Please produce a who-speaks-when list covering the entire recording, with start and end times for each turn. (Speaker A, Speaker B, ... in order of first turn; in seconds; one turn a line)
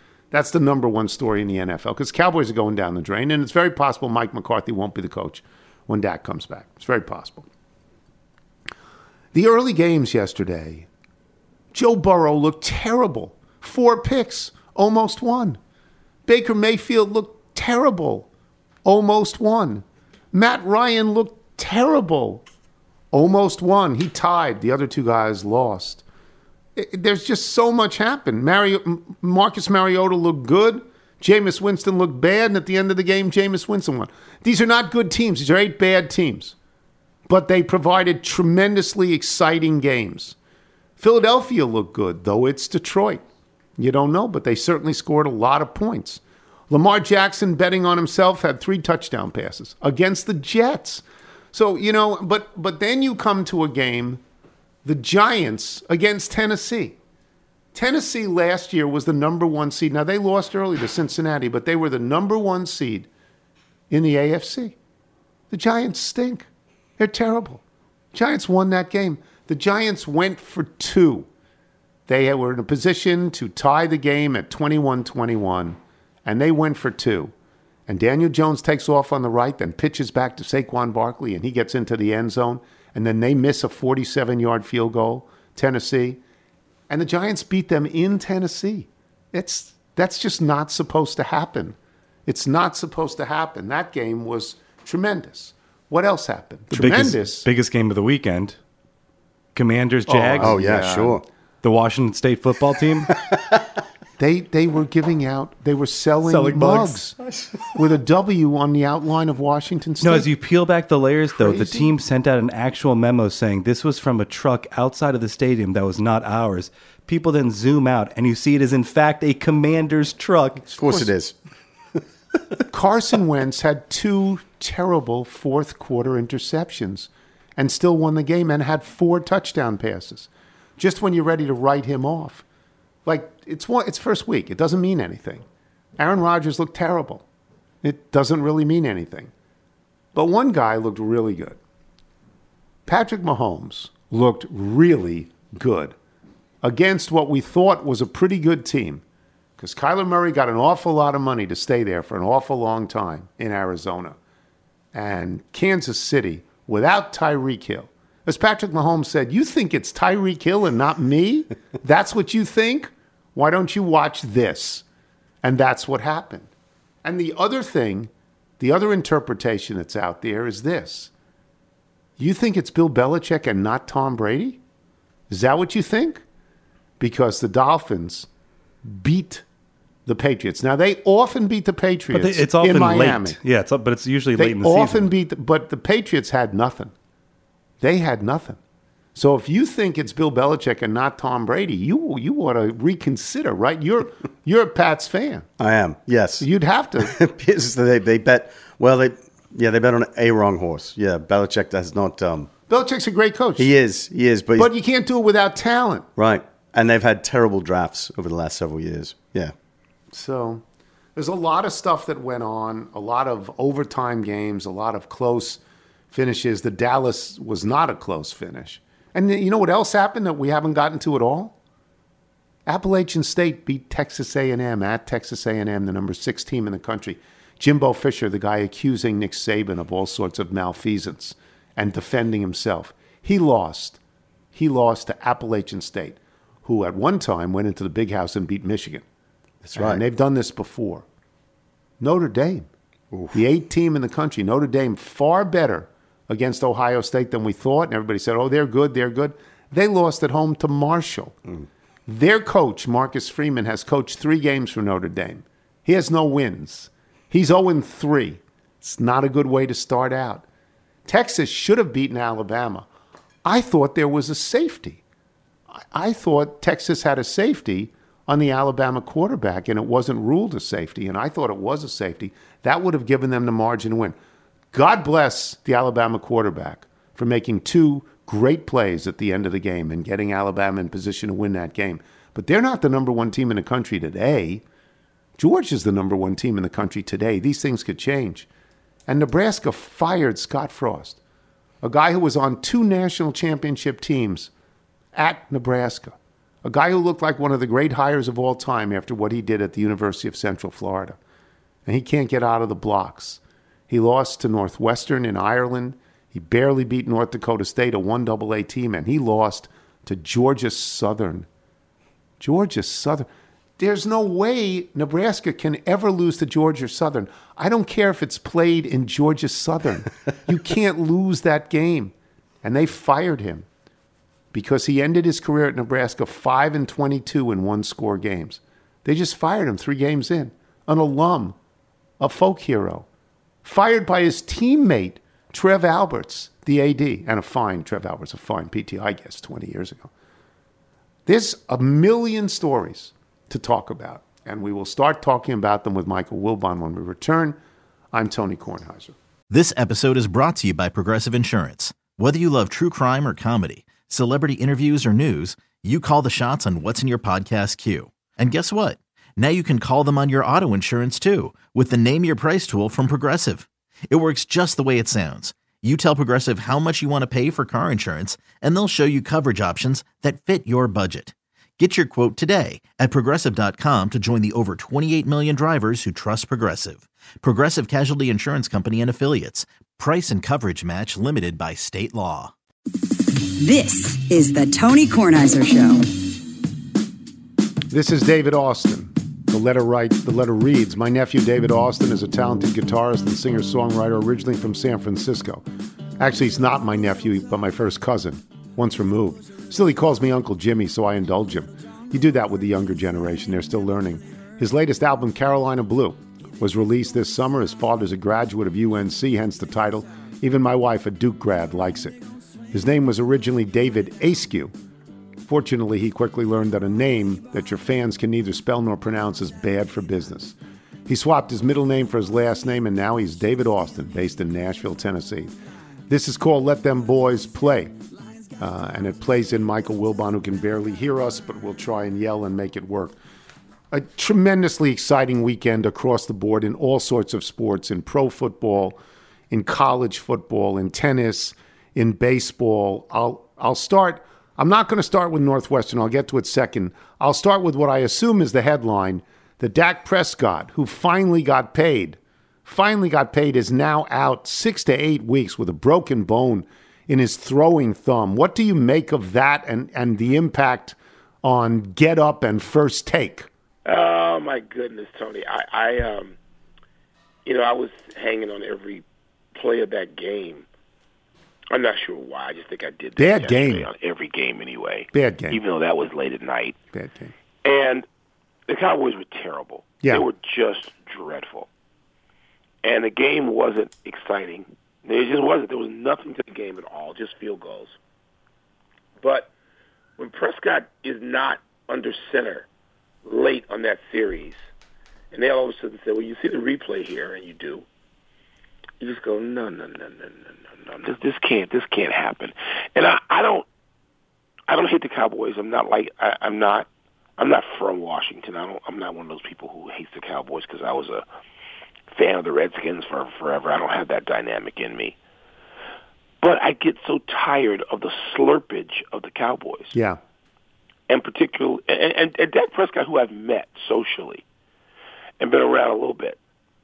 Speaker A: 0.3-7.5
Speaker A: 9.3-10.9
Speaker A: 11.7-15.6
Speaker A: 16.3-18.3
Speaker A: 18.8-22.4
Speaker A: 23.1-26.0
Speaker A: 26.8-36.5
Speaker A: 37.3-40.4
Speaker A: 41.0-43.2
Speaker A: 43.8-54.2
Speaker A: 54.8-57.0
Speaker A: 57.7-63.1
Speaker A: 63.9-64.7
Speaker A: 65.5-66.5
Speaker A: 67.0-67.6
Speaker A: 68.1-71.3
Speaker A: 72.1-77.3
Speaker A: 77.9-86.2
Speaker A: 86.9-97.5
Speaker B: 96.7-98.6
Speaker B: 99.5-101.1
Speaker A: 100.0-101.2
Speaker C: 100.4-101.2
Speaker B: 101.6-103.2
Speaker A: 104.2-107.1
Speaker B: 106.2-107.0
Speaker C: 107.2-107.6
Speaker A: 107.7-110.3
Speaker B: 110.0-120.7
Speaker A: 111.4-111.9
Speaker A: 120.7-121.1
Speaker C: 120.8-121.4
Speaker A: 122.7-132.4
Speaker A: 133.1-135.4
Speaker A: 136.0-137.2
Speaker A: 137.8-139.3
Speaker A: 140.1-141.6
Speaker A: 142.9-145.9
Speaker A: 146.6-149.0
Speaker A: 149.6-154.2
Speaker A: 154.9-164.8
Speaker A: 165.4-166.5
Speaker A: 167.0-171.1
Speaker A: 172.2-174.6
Speaker A: 175.3-176.2
Speaker A: 177.0-178.3
Speaker A: 178.8-179.4
Speaker A: 180.1-183.4
Speaker B: 182.1-185.1
Speaker A: 184.3-186.9
Speaker A: 187.8-188.6
Speaker A: 189.1-195.4
Speaker C: 195.6-196.5
Speaker A: 196.4-197.2
Speaker C: 197.0-202.5
Speaker A: 202.7-203.7
Speaker C: 203.6-204.7
Speaker A: 204.6-206.1
Speaker C: 206.2-209.5
Speaker A: 210.1-210.6
Speaker A: 211.2-221.5
Speaker A: 222.7-234.0
Speaker A: 234.5-239.0
Speaker C: 239.6-240.0
Speaker A: 239.7-241.1
Speaker A: 242.0-242.7
Speaker C: 243.1-243.4
Speaker A: 243.3-251.4
Speaker A: 252.1-260.4
Speaker A: 261.1-262.9
Speaker A: 263.4-265.0
Speaker A: 265.9-274.1
Speaker A: 274.7-284.6
Speaker A: 285.4-288.5
Speaker A: 289.1-291.2
Speaker A: 291.8-294.5
Speaker A: 295.1-301.2
Speaker A: 301.9-311.5
Speaker A: 312.4-323.6
Speaker A: 324.5-331.6
Speaker A: 332.2-333.1
Speaker A: 333.6-340.1
Speaker A: 341.2-347.6
Speaker A: 348.1-349.1
Speaker D: 349.5-382.5
Speaker E: 383.6-386.1
Speaker A: 387.9-395.6
Speaker A: 396.2-412.2
Speaker A: 412.7-414.7
Speaker A: 415.5-425.5
Speaker A: 426.1-427.9
Speaker A: 428.6-433.2
Speaker A: 433.9-439.0
Speaker A: 439.5-463.5
Speaker F: 463.8-466.4
Speaker F: 467.4-469.0
Speaker F: 469.5-470.6
Speaker F: 471.7-476.8
Speaker A: 473.2-473.9
Speaker A: 475.1-475.6
Speaker A: 476.9-477.3
Speaker F: 477.6-478.1
Speaker F: 478.7-481.7
Speaker F: 482.8-487.9
Speaker F: 489.2-489.5
Speaker F: 490.2-492.7
Speaker F: 493.2-494.7
Speaker F: 495.3-497.8
Speaker F: 499.0-503.7
Speaker F: 504.7-511.2
Speaker F: 512.1-515.1
Speaker F: 516.4-519.9
Speaker A: 519.9-520.2
Speaker F: 521.1-524.4
Speaker F: 525.4-526.4